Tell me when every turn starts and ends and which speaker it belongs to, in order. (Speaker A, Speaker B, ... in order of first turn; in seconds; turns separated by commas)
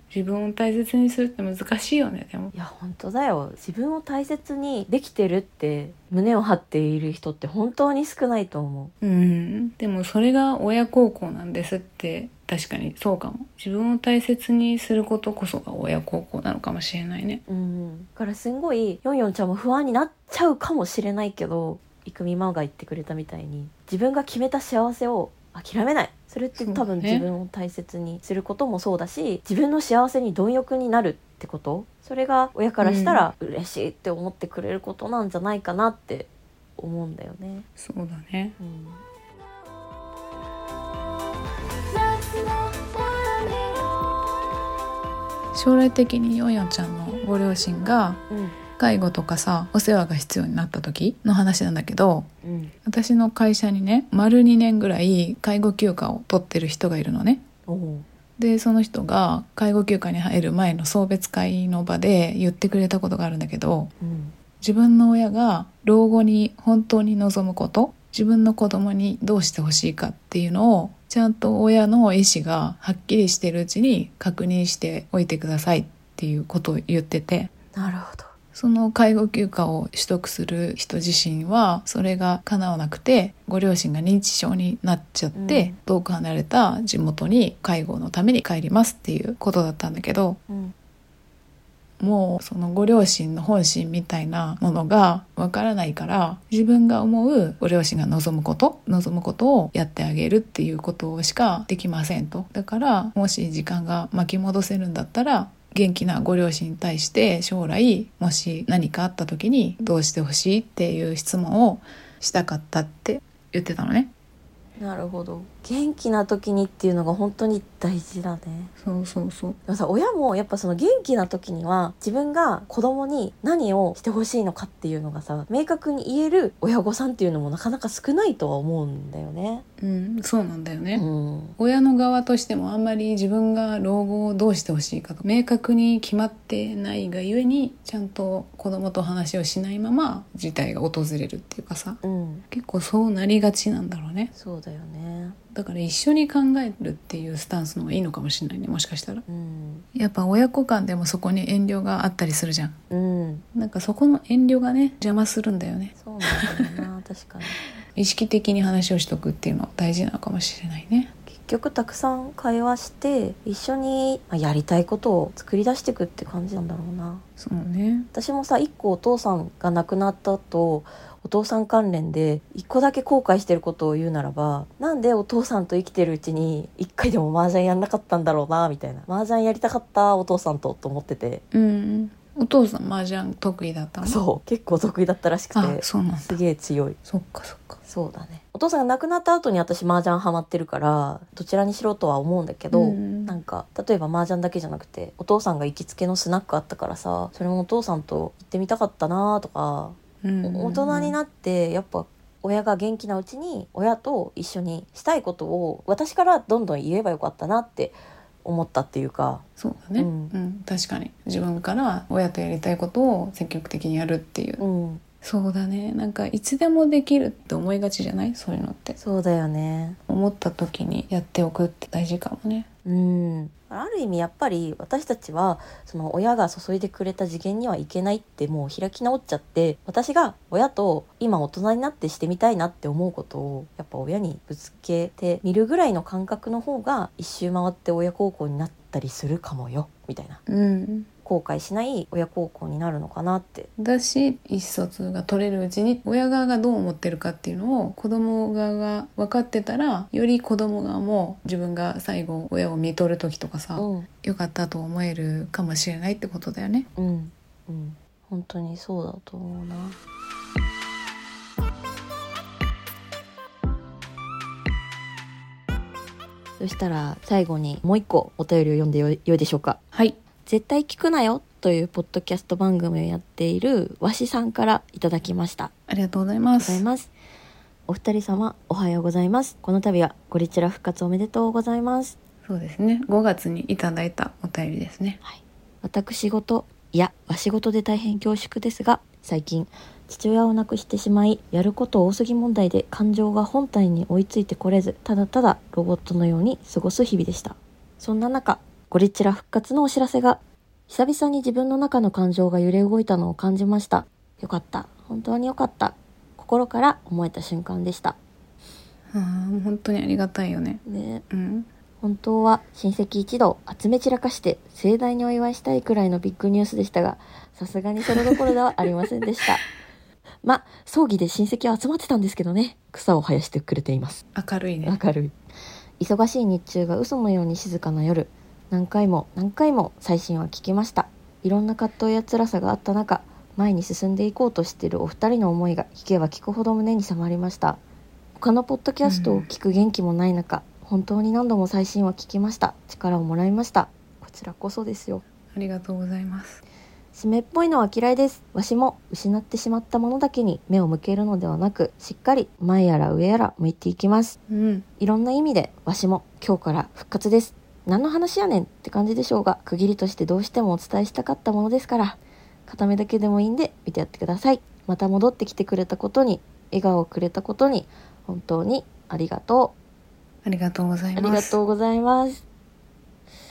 Speaker A: 0.1-2.5, Speaker B: 2.5-8.9, Speaker A: 9.0-17.4, Speaker B: 17.5-37.6, Speaker A: 26.6-27.3, Speaker A: 32.8-33.3, Speaker A: 37.8-38.6, Speaker B: 38.6-39.0, Speaker A: 45.5-48.2, Speaker B: 48.3-48.5, Speaker A: 48.8-52.3, Speaker B: 52.4-52.7, Speaker A: 52.8-57.4, Speaker B: 57.7-58.0, Speaker A: 58.4-63.9, Speaker B: 64.0-64.3, Speaker A: 64.6-77.5, Speaker B: 77.7-78.3, Speaker A: 78.5-90.4, Speaker B: 85.3-85.8, Speaker B: 90.5-90.7, Speaker A: 92.0-114.1, Speaker B: 114.8-118.7, Speaker A: 118.8-119.6, Speaker B: 119.7-129.6, Speaker A: 129.8-131.0, Speaker B: 130.9-131.6, Speaker A: 131.6-144.3, Speaker B: 142.0-142.4, Speaker B: 144.3-145.4, Speaker A: 145.5-149.2, Speaker B: 149.3-149.8, Speaker A: 149.9-152.8, Speaker B: 152.9-153.4, Speaker A: 153.5-156.7, Speaker B: 155.9-157.6, Speaker A: 157.9-161.1, Speaker B: 161.3-167.2, Speaker A: 167.4-168.1, Speaker B: 168.1-181.4, Speaker A: 181.5-184.2, Speaker B: 184.0-187.0, Speaker A: 185.5-186.4, Speaker A: 187.1-187.8, Speaker B: 187.8-209.4, Speaker A: 192.7-193.3, Speaker A: 200.2-201.2, Speaker A: 209.6-214.6, Speaker B: 209.9-210.3, Speaker B: 214.6-215.0, Speaker A: 215.2-219.0, Speaker B: 219.0-220.0, Speaker A: 220.1-222.7, Speaker B: 222.8-240.4, Speaker A: 240.5-241.1, Speaker B: 241.2-243.7, Speaker A: 243.8-256.9, Speaker B: 253.8-254.1, Speaker B: 257.0-260.0, Speaker B: 266.6-269.8, Speaker B: 270.4-275.7, Speaker A: 275.9-276.8, Speaker B: 276.6-277.1, Speaker B: 277.9-282.1, Speaker A: 282.4-285.2, Speaker B: 285.2-308.2, Speaker A: 309.1-311.7, Speaker B: 310.8-311.2, Speaker B: 312.0-319.6, Speaker B: 320.4-324.2, Speaker A: 324.3-325.0, Speaker B: 324.8-325.3, Speaker B: 326.0-337.8, Speaker B: 338.4-345.2, Speaker A: 339.0-339.5, Speaker A: 345.5-346.6, Speaker B: 347.1-354.4, Speaker A: 354.5-354.9, Speaker B: 355.0-369.7, Speaker A: 370.4-371.6, Speaker B: 371.1-372.4